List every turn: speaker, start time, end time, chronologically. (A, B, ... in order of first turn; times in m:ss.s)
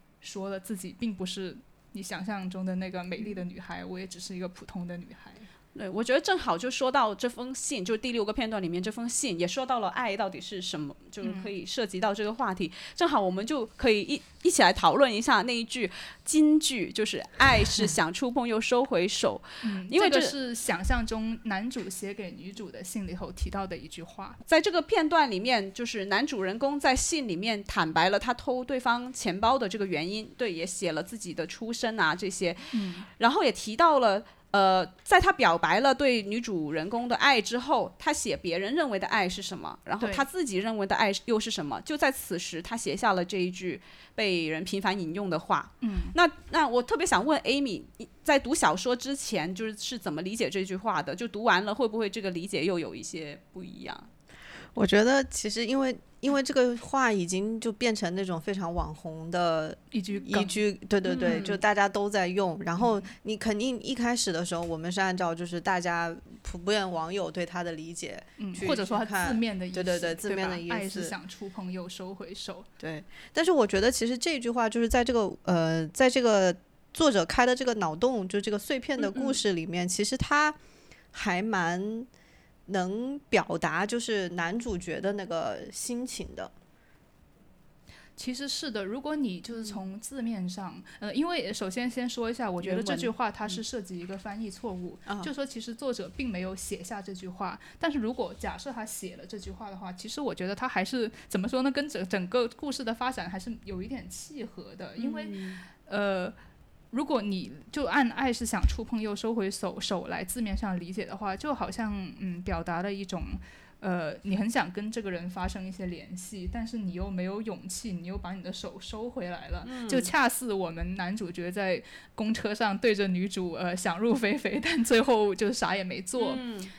0:00.2-0:05.5 A
0:05.8-0:20.3 B
0:11.2-0:11.5 A
0:19.6-0:24.4 A
0:24.5-0:54.1 B
0:32.7-0:33.1 A
0:40.0-0:40.3 A
0:45.8-0:46.2 A
0:54.8-1:11.1 C
0:59.9-1:00.6 A
1:01.1-1:01.6 B
1:02.8-1:03.1 A
1:08.4-1:12.7 A
1:12.8-1:20.6 C
1:19.0-1:19.4 B
1:21.1-1:22.1 C
1:22.7-1:26.5 C
1:28.2-1:46.4 A
1:32.7-1:33.1 C
1:45.0-1:45.6 B
1:46.9-2:06.4 A
1:59.6-2:00.1 B
2:06.2-2:06.7 B